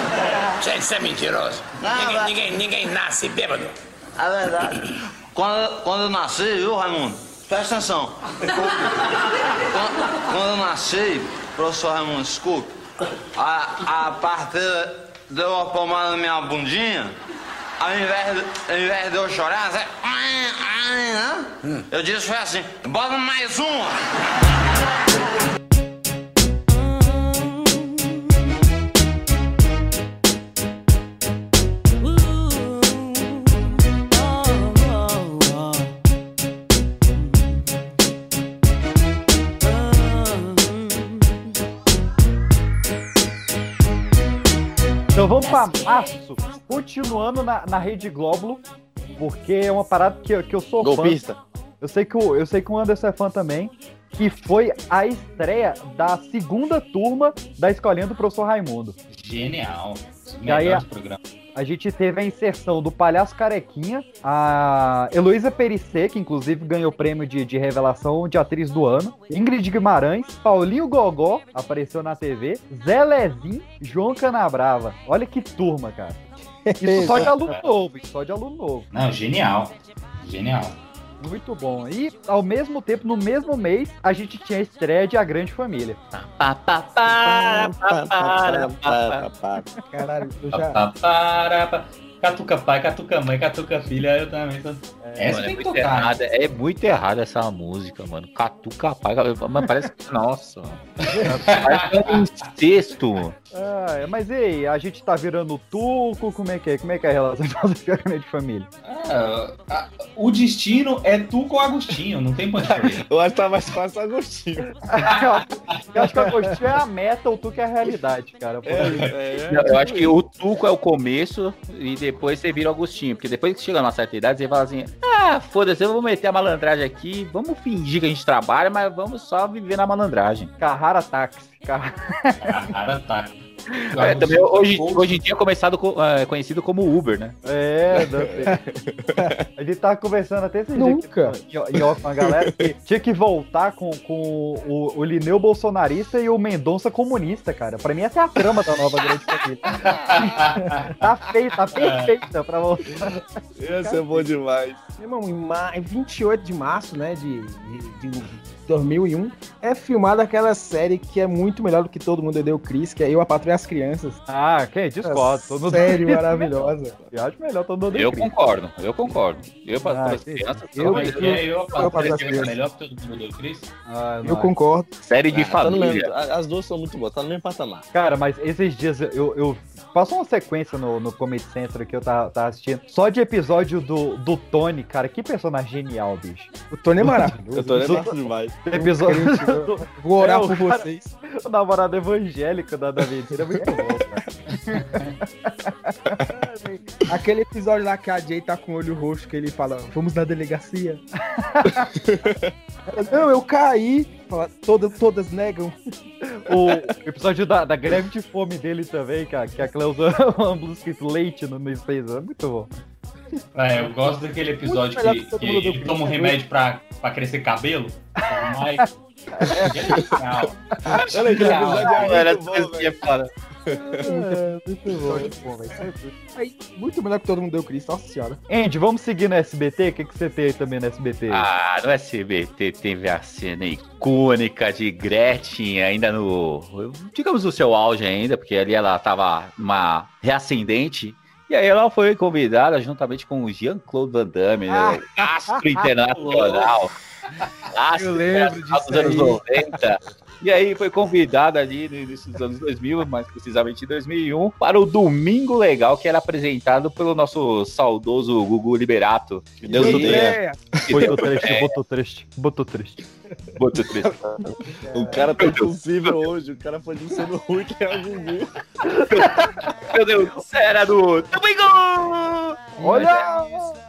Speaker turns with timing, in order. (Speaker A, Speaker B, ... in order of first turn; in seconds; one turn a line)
Speaker A: 0.6-3.7
Speaker B: 1.8-2.4
Speaker B: 4.2-4.8
Speaker B: 5.3-8.1
Speaker B: 9.7-12.7
Speaker B: 13.3-17.1
Speaker B: 17.8-23.9
Speaker C: 45.1-48.6
Speaker C: 49.2-51.2
Speaker D: 50.8-51.4
Speaker C: 51.8-58.9
Speaker E: 59.1-61.2
Speaker C: 60.4-60.8
Speaker C: 61.5-76.2
Speaker F: 76.7-77.2
Speaker C: 76.8-78.9
Speaker E: 78.9-80.8
Speaker C: 81.2-86.0
Speaker G: 86.1-89.2
Speaker D: 87.2-89.7
Speaker E: 87.5-88.0
Speaker F: 89.9-90.8
Speaker E: 90.5-96.1
Speaker C: 95.0-95.4
Speaker G: 95.3-100.8
Speaker E: 101.1-102.2
Speaker C: 101.2-101.5
Speaker G: 101.5-103.3
Speaker C: 103.5-108.7
Speaker E: 108.8-113.0
Speaker D: 112.7-114.7
Speaker C: 114.9-119.1
Speaker D: 118.6-120.1
Speaker G: 119.5-130.5
Speaker C: 130.6-132.5
Speaker E: 132.4-135.2
Speaker G: 133.9-137.3
Speaker C: 137.4-138.6
Speaker D: 137.9-139.4
Speaker C: 139.6-150.3
Speaker F: 140.7-141.4
Speaker D: 142.2-142.7
Speaker E: 149.7-150.9
Speaker F: 150.6-150.9
Speaker C: 151.0-153.2
Speaker E: 151.7-152.1
Speaker D: 153.6-154.8
Speaker F: 155.0-164.2
Speaker C: 164.3-168.3
Speaker F: 165.0-166.9
Speaker G: 167.9-172.5
Speaker C: 169.9-171.4
Speaker F: 170.7-172.6
Speaker E: 170.9-173.7
Speaker C: 173.8-174.5
Speaker F: 174.2-174.9
Speaker G: 175.0-176.1
Speaker D: 175.3-177.8
Speaker C: 177.9-186.5
Speaker F: 186.7-188.0
Speaker C: 187.0-196.8
Speaker D: 187.6-188.6
Speaker F: 188.7-191.1
Speaker F: 197.1-201.0
Speaker C: 201.4-201.8
Speaker D: 201.8-202.5
Speaker F: 202.9-205.8
Speaker C: 206.3-212.7
Speaker E: 213.6-222.1
Speaker F: 214.6-216.3
Speaker C: 219.4-219.7
Speaker D: 221.1-222.9
Speaker G: 221.4-223.3
Speaker D: 223.7-224.0
Speaker C: 224.0-225.3
Speaker F: 224.0-228.4
Speaker C: 228.5-231.5
Speaker G: 231.3-246.9
Speaker C: 244.7-245.0
Speaker E: 246.1-246.7
Speaker G: 247.7-260.3
Speaker F: 247.9-249.4
Speaker D: 259.6-261.1
Speaker C: 259.7-260.3
Speaker F: 259.8-260.6
Speaker G: 260.9-261.7
Speaker C: 260.9-263.0
Speaker G: 263.6-264.5
Speaker D: 264.9-268.5
Speaker F: 264.9-265.2
Speaker G: 265.4-265.7
Speaker C: 269.0-269.3
Speaker G: 269.9-273.3
Speaker F: 272.8-273.2
Speaker C: 272.8-273.8